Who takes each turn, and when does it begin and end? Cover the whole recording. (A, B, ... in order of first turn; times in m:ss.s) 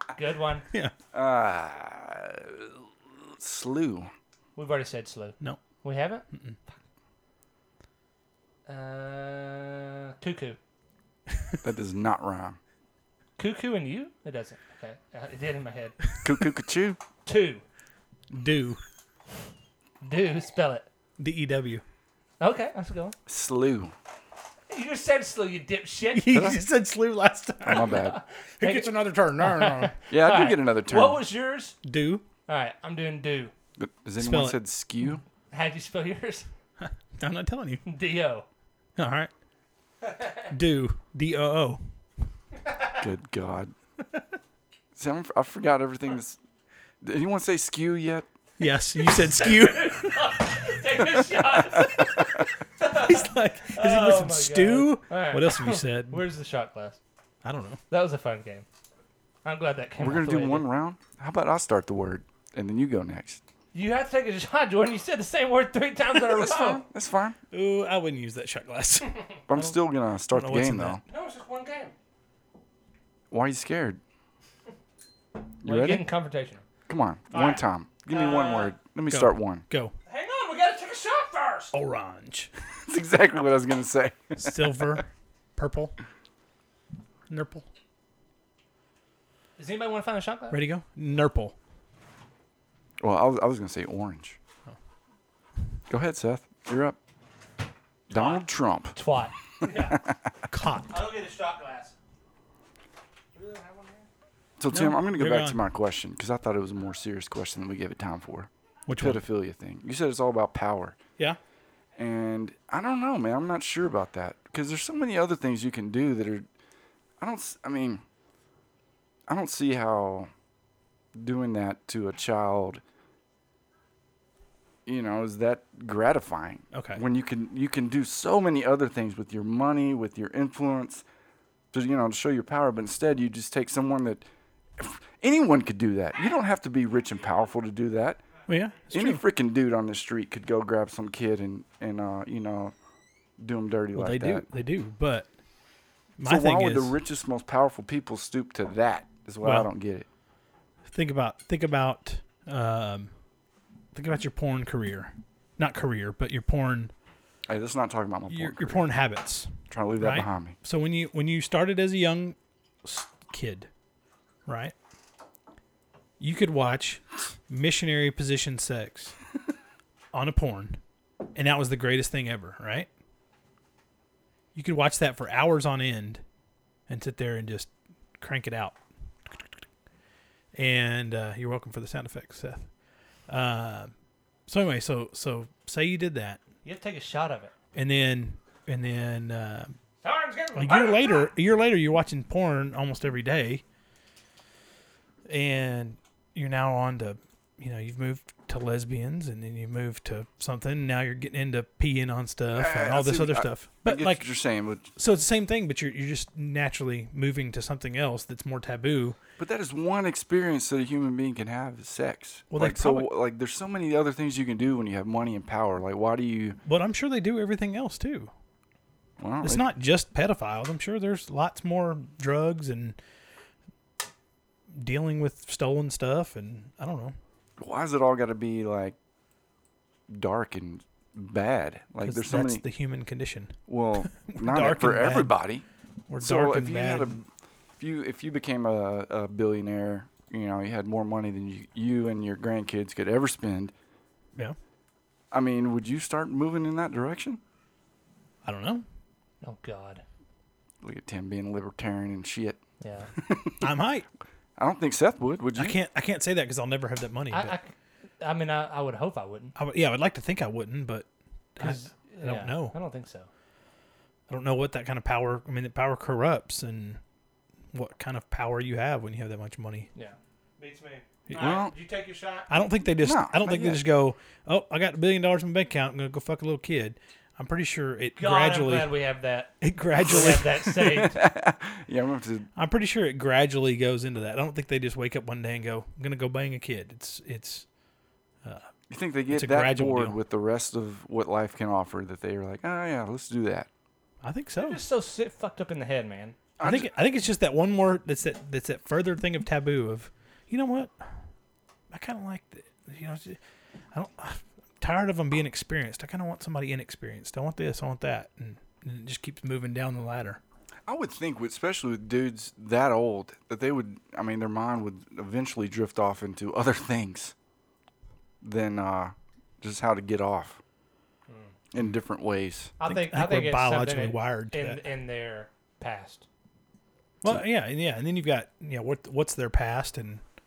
0:00.1-0:00.6 A
0:01.1-0:04.1 B
0:04.6-0:06.2 A
0:06.3-0:06.6 C
0:08.7-0:10.6 A
0:11.6-0:12.6 B
0:13.4-0:16.0 A
0:16.2-0:17.0 B
0:17.3-0:17.6 A
0:18.3-0:18.8 C
0:20.0-0:20.9 A
0:21.2-0:21.8 C
0:22.4-0:23.2 A
0:23.3-0:23.9 B
0:24.7-0:26.5 A
0:26.1-0:27.9 C
0:26.3-0:26.6 B
0:27.7-0:28.2 B
0:27.7-0:31.8 A
0:28.6-0:29.9 C
0:30.1-0:31.2 B
0:31.8-0:32.2 C
0:32.5-0:33.5 A
0:33.8-0:35.2 B
0:34.2-0:34.6 C
0:35.5-0:36.5 A
0:36.8-0:37.8 C
0:37.9-0:38.4 A
0:39.0-0:39.3 C
0:40.0-0:40.5 A
0:40.5-0:41.8 C
0:43.0-0:43.7 B
0:44.9-0:46.4 B
0:47.0-0:48.3 B
0:48.6-0:50.4 C
0:49.0-0:57.0 A
0:52.8-0:56.2 C
0:57.4-0:57.8 C
0:57.9-0:58.6 A
0:59.4-1:00.7 A
1:00.0-1:03.4 B
1:03.7-1:06.8 A
1:06.3-1:07.4 B
1:07.5-1:09.6 C
1:09.5-1:11.0 B
1:10.3-1:11.0 C
1:11.1-1:11.9 A
1:13.3-1:14.0 B
1:15.6-1:16.1 B
1:15.6-1:16.6 A
1:16.9-1:19.6 B
1:17.3-1:18.8 A
1:19.1-1:19.9 C
1:20.1-1:21.7 A
1:21.7-1:22.5 C
1:22.9-1:25.0 B
1:24.4-1:26.0 C
1:27.3-1:27.6 C
1:29.6-1:30.6 A
1:30.5-1:31.6 C
1:33.0-1:34.4 B
1:35.9-1:37.0 B
1:38.1-1:39.0 B
1:38.1-1:40.0 A
1:39.7-1:40.0 B
1:40.5-1:41.0 C
1:40.9-1:42.0 A
1:43.4-1:44.1 A
1:44.6-1:51.0 B
1:44.7-1:45.6 C
1:48.9-1:49.2 C
1:52.0-1:56.5 B
1:57.2-1:58.0 B
1:59.3-2:00.3 B
2:01.1-2:02.8 B
2:04.9-2:11.0 B
2:06.7-2:07.0 C
2:11.7-2:18.2 B
2:18.5-2:19.2 C
2:18.9-2:22.7 B
2:23.4-2:24.5 B
2:24.0-2:25.3 C
2:26.2-2:27.0 C
2:26.2-2:30.1 B
2:29.4-2:29.7 C
2:30.9-2:33.1 C
2:33.9-2:36.9 C
2:37.5-2:38.9 B
2:38.3-2:43.7 C
2:39.7-2:40.6 B
2:44.5-2:44.8 C
2:46.2-2:49.2 C
2:50.1-2:50.8 C
2:51.4-2:52.9 C
2:54.6-2:56.2 C
2:56.9-2:58.8 C
3:00.6-3:02.7 C
3:03.3-3:03.9 C
3:04.5-3:06.4 C
3:06.6-3:07.5 A
3:07.8-3:09.8 C
3:10.0-3:11.3 A
3:10.6-3:13.6 C
3:15.3-3:24.3 C
3:22.6-3:24.9 B
3:25.0-3:29.2 C
3:29.4-3:36.6 B
3:32.5-3:33.2 C
3:36.6-3:38.3 C
3:39.2-3:39.7 B
3:39.4-3:43.0 C
3:44.7-3:47.2 C
3:47.6-3:49.0 B
3:50.1-3:52.6 B
3:52.0-3:55.3 C
3:53.7-3:55.6 B
3:56.1-3:57.2 C
3:56.2-4:03.7 B
4:05.3-4:07.4 B
4:08.4-4:08.8 C
4:09.4-4:10.0 A
4:10.8-4:12.6 B
4:12.8-4:13.1 A
4:13.2-4:13.6 B
4:13.6-4:14.0 C
4:14.6-4:15.8 B
4:15.6-4:17.6 C
4:17.3-4:19.5 A
4:19.6-4:22.8 C
4:21.6-4:23.3 A
4:24.3-4:27.0 C
4:27.7-4:29.9 C
4:30.0-4:32.5 A
4:31.4-4:31.7 B
4:32.5-4:38.9 C
4:33.0-4:33.8 B
4:38.2-4:41.2 A
4:39.6-4:40.7 C
4:40.8-4:42.5 B
4:42.6-4:47.7 C
4:48.4-4:48.7 C
4:48.9-4:53.7 B
4:49.3-4:50.2 C
4:54.2-4:54.8 C
4:54.6-4:56.4 A
4:56.6-4:56.9 B
4:56.6-5:01.1 C
5:01.9-5:03.4 C
5:03.9-5:10.4 C
5:10.9-5:17.3 B
5:18.4-5:20.6 B
5:21.3-5:21.5 A
5:21.7-5:22.7 B
5:22.8-5:26.3 A
5:22.8-5:24.8 C
5:27.2-5:30.2 C